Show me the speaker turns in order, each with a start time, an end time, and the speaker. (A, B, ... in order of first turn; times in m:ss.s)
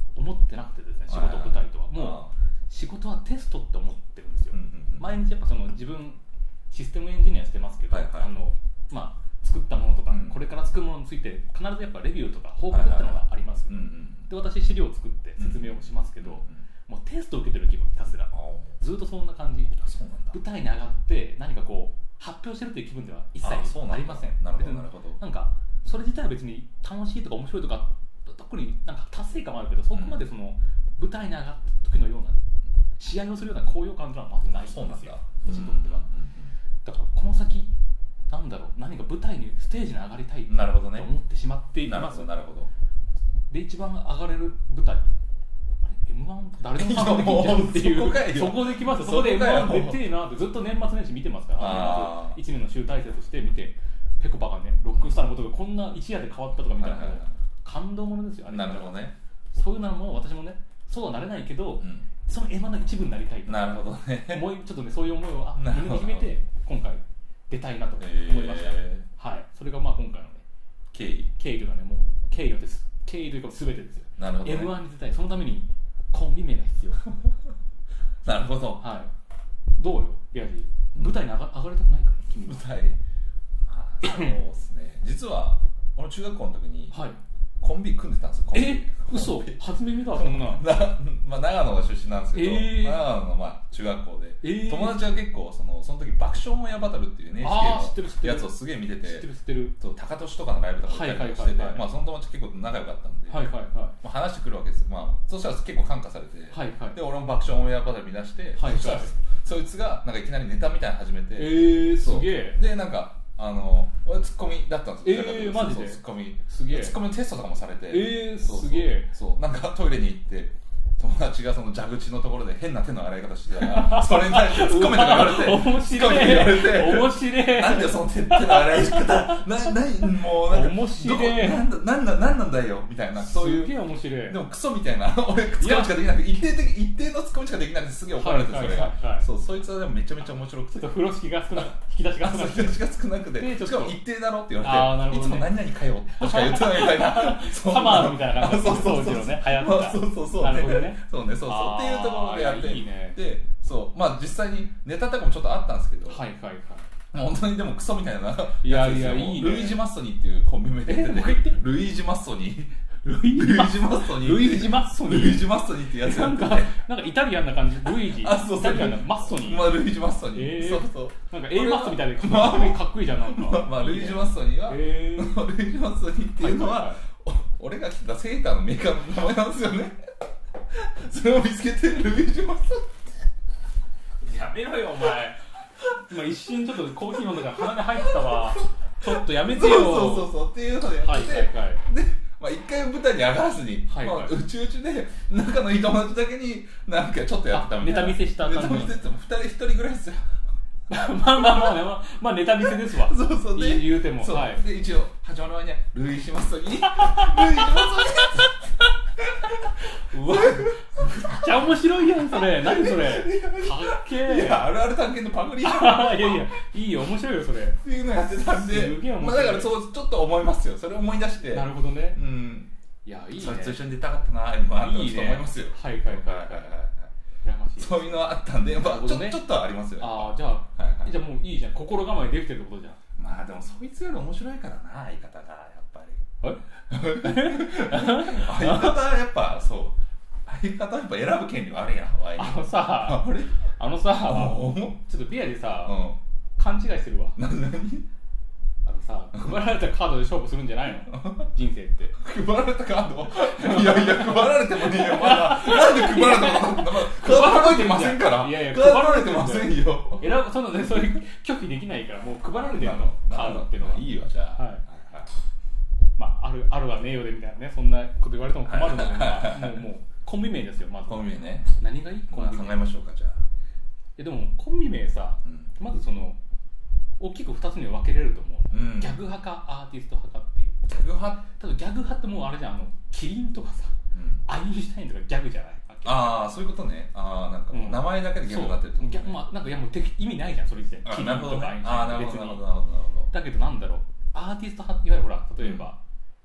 0:00.2-0:19.8 A
0:01.1-0:02.3 B
0:04.5-0:05.1 B
0:07.9-0:08.3 B
0:10.1-0:10.4 B
0:12.7-0:14.3 B
0:15.4-0:16.6 B
0:18.3-0:18.8 B
0:19.8-0:20.4 B
0:20.3-0:32.4 A
0:23.4-0:25.2 B
0:29.9-0:30.3 B
0:33.0-0:36.1 A
0:34.6-0:36.5 B
0:36.8-0:37.7 A
0:38.3-0:42.3 A
0:40.5-0:41.1 B
0:41.8-0:42.7 B
0:43.5-0:45.1 A
0:45.8-1:10.4 A
0:46.7-0:50.1 B
0:51.6-0:52.4 B
0:54.9-0:55.2 B
0:56.7-0:57.4 B
0:58.5-0:59.2 B
1:01.8-1:02.1 B
1:03.5-1:04.5 B
1:05.6-1:06.3 B
1:08.0-1:09.0 B
1:10.9-1:11.3 B
1:11.4-1:17.1 A
1:14.2-1:14.8 B
1:18.2-1:18.8 B
1:18.8-1:19.1 A
1:19.8-1:22.7 A
1:21.0-1:21.2 B
1:22.4-1:23.0 B
1:23.6-1:27.0 B
1:24.0-1:24.4 A
1:26.9-1:27.2 A
1:27.6-1:43.5 B
1:28.5-1:30.7 A
1:32.3-1:33.0 A
1:34.4-1:35.1 A
1:37.4-1:39.8 A
1:40.9-1:41.9 A
1:43.3-1:44.0 A
1:44.0-2:13.8 B
1:46.5-1:47.0 A
1:48.6-1:49.1 A
1:51.4-1:52.6 A
1:55.0-1:57.0 A
1:57.9-1:59.1 A
2:03.6-2:11.7 A
2:13.2-2:14.4 A
2:14.3-2:21.0 B
2:15.6-2:16.0 A
2:18.2-2:19.3 A
2:20.8-2:24.0 A
2:21.6-2:36.2 B
2:24.6-2:25.6 A
2:26.1-2:33.2 A
2:36.1-2:36.9 A
2:37.1-2:46.8 B
2:38.6-2:39.8 A
2:40.9-2:41.6 A
2:43.1-2:49.8 A
2:47.8-3:00.0 B
2:50.3-2:55.4 A
2:56.4-2:57.0 A
3:00.7-3:03.1 B
3:04.2-3:05.4 A
3:06.0-3:10.4 A
3:07.3-3:08.4 B
3:09.0-3:20.3 B
3:11.0-3:11.8 A
3:13.9-3:14.4 A
3:17.5-3:19.0 A
3:20.9-3:24.6 A
3:22.6-3:28.5 B
3:26.9-3:28.5 A
3:29.2-3:36.5 B
3:29.8-3:34.7 A
3:35.6-3:37.8 A
3:37.8-3:42.7 B
3:38.5-3:39.8 A
3:41.5-3:42.2 A
3:43.0-3:43.8 A
3:43.4-3:47.1 B
3:44.8-3:46.8 A
3:47.4-3:49.4 A
3:47.8-3:51.2 B
3:50.0-3:53.0 A
3:53.2-3:56.2 B
3:56.4-3:59.0 A
3:56.9-4:03.6 B
4:02.4-4:06.0 A
4:04.2-4:05.0 B
4:05.8-4:06.2 B
4:06.6-4:07.4 A
4:07.4-4:08.1 B
4:08.8-4:12.2 A
4:11.1-4:11.5 B
4:12.2-4:21.1 B
4:13.4-4:24.8 A
4:22.7-4:25.3 B
4:26.2-4:32.9 A
4:28.6-4:29.8 B
4:31.1-4:31.8 B
4:32.3-4:33.4 B
4:34.2-4:36.4 A
4:35.4-4:35.7 B
4:37.2-4:40.8 A
4:38.7-4:39.2 B
4:40.9-4:41.4 B
4:41.6-4:46.6 A
4:44.1-4:44.5 B
4:46.0-4:49.4 B
4:47.7-4:52.7 A
4:51.0-4:53.3 B
4:53.3-4:56.0 A
4:55.6-4:55.9 B